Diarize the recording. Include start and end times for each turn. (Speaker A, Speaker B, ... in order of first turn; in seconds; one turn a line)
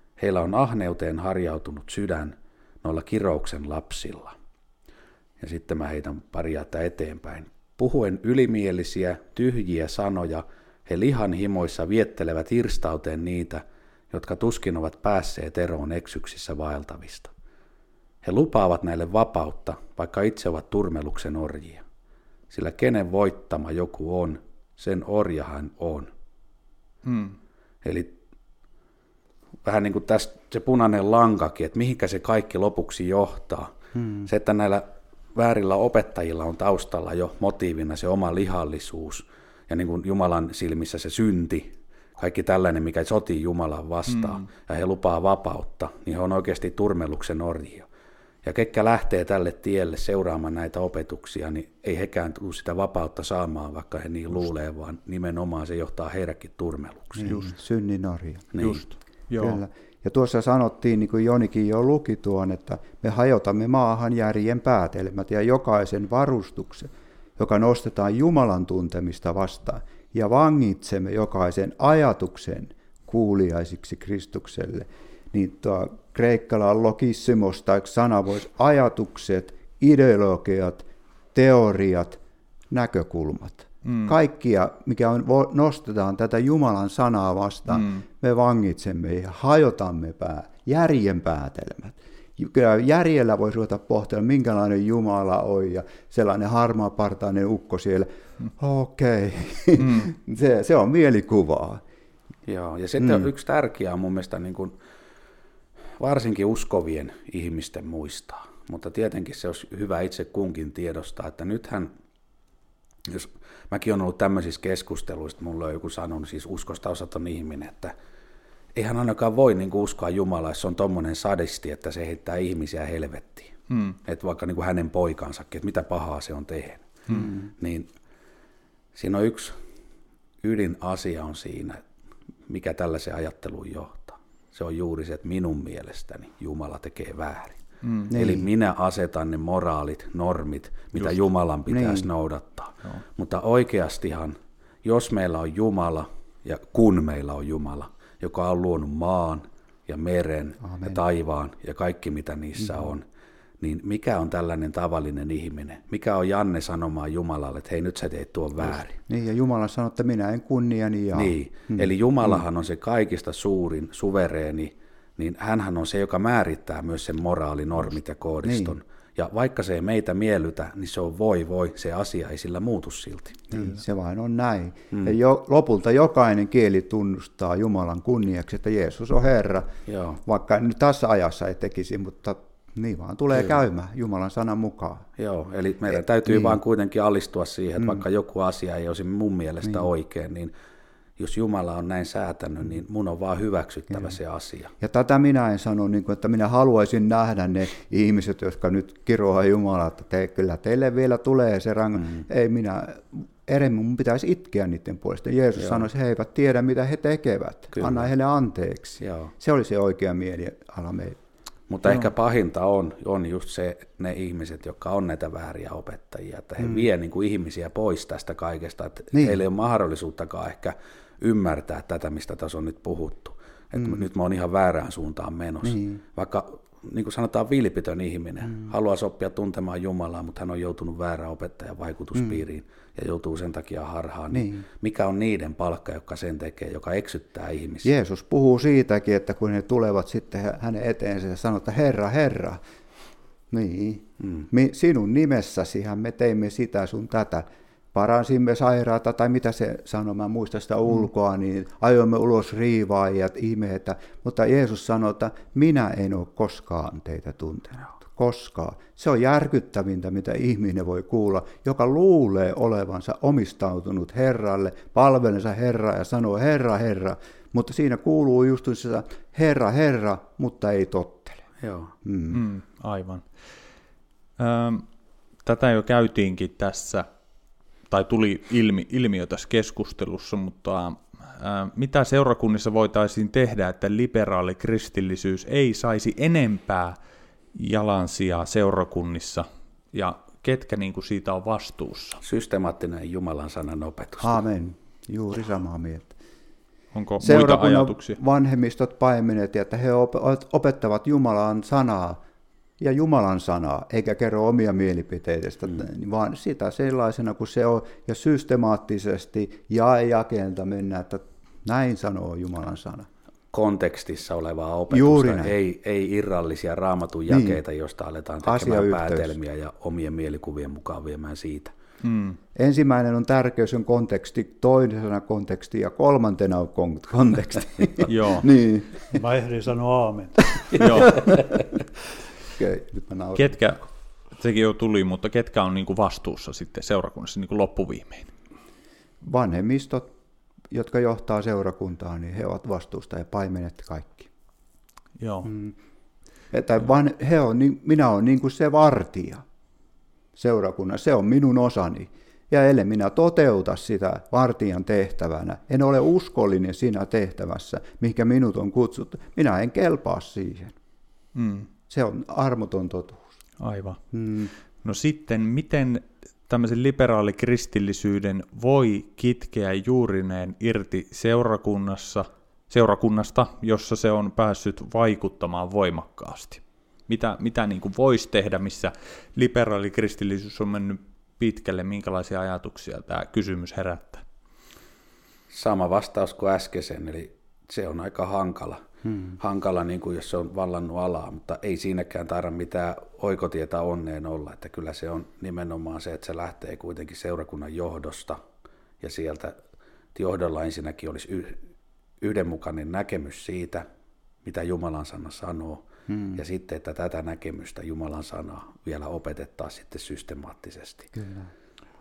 Speaker A: 0.2-4.4
Speaker A: 5.4-17.3
Speaker A: 18.2-21.8
Speaker A: 22.5-26.1
Speaker B: 27.1-27.4
Speaker A: 27.8-28.1
Speaker A: 29.6-33.7
Speaker C: 34.0-34.3
Speaker A: 34.2-47.9
Speaker B: 44.1-44.5
Speaker A: 48.4-57.4
Speaker C: 57.2-58.5
Speaker A: 58.5-58.8
Speaker B: 58.6-59.6
Speaker C: 59.4-82.2
Speaker C: 82.7-101.8
Speaker B: 83.8-84.2
Speaker B: 87.7-88.0
Speaker B: 99.8-100.1
Speaker A: 102.5-104.7
Speaker C: 103.0-103.3
Speaker A: 106.0-111.9
Speaker A: 113.1-117.9
Speaker A: 118.8-127.9
Speaker B: 123.7-124.0
Speaker C: 127.2-127.5
Speaker A: 128.9-129.6
Speaker A: 130.4-131.8
Speaker A: 132.5-137.6
Speaker B: 137.8-138.1
Speaker A: 138.1-153.1
Speaker C: 138.1-138.5
Speaker C: 141.7-142.1
Speaker C: 150.6-151.0
Speaker A: 153.6-159.0
Speaker C: 159.1-161.9
Speaker A: 161.1-173.7
Speaker C: 168.4-168.8
Speaker C: 173.5-179.7
Speaker A: 179.9-180.2
Speaker C: 180.3-185.1
Speaker A: 185.2-190.5
Speaker C: 186.3-186.6
Speaker C: 187.8-188.0
Speaker A: 191.2-194.7
Speaker C: 194.8-211.2
Speaker A: 205.6-205.9
Speaker A: 207.7-208.1
Speaker A: 209.0-209.3
Speaker A: 211.7-237.9
Speaker C: 216.6-216.9
Speaker C: 219.1-219.4
Speaker C: 223.8-224.0
Speaker C: 225.6-226.0
Speaker C: 234.3-234.7
Speaker C: 237.8-242.6
Speaker C: 243.5-271.4
Speaker A: 244.2-244.5
Speaker A: 271.6-271.9
Speaker C: 272.0-272.4
Speaker B: 272.3-273.3
Speaker B: 274.4-274.9
Speaker B: 275.4-277.1
Speaker B: 277.9-287.0
Speaker B: 287.5-292.2
Speaker A: 292.2-294.4
Speaker C: 294.2-296.2
Speaker B: 296.9-298.2
Speaker C: 297.2-302.2
Speaker C: 302.8-313.1
Speaker A: 313.5-321.7
Speaker C: 314.9-315.6
Speaker C: 317.3-317.6
Speaker C: 318.4-319.4
Speaker B: 322.0-322.4
Speaker C: 322.6-329.2
Speaker B: 328.1-328.5
Speaker D: 329.1-331.1
Speaker B: 330.8-331.1
Speaker C: 332.5-333.6
Speaker B: 333.4-338.3
Speaker C: 339.2-340.1
Speaker C: 340.7-344.3
Speaker B: 345.2-345.5
Speaker C: 345.4-345.8
Speaker C: 346.5-349.4
Speaker C: 350.4-360.8
Speaker B: 361.4-361.7
Speaker C: 361.9-363.4
Speaker B: 363.6-364.0
Speaker C: 364.1-364.5
Speaker B: 364.8-384.2
Speaker A: 385.5-388.8
Speaker C: 389.1-389.4
Speaker A: 389.4-398.4
Speaker A: 399.0-399.6
Speaker A: 400.1-401.6
Speaker A: 402.2-403.9
Speaker A: 404.4-411.1
Speaker C: 406.1-406.4
Speaker C: 411.1-411.5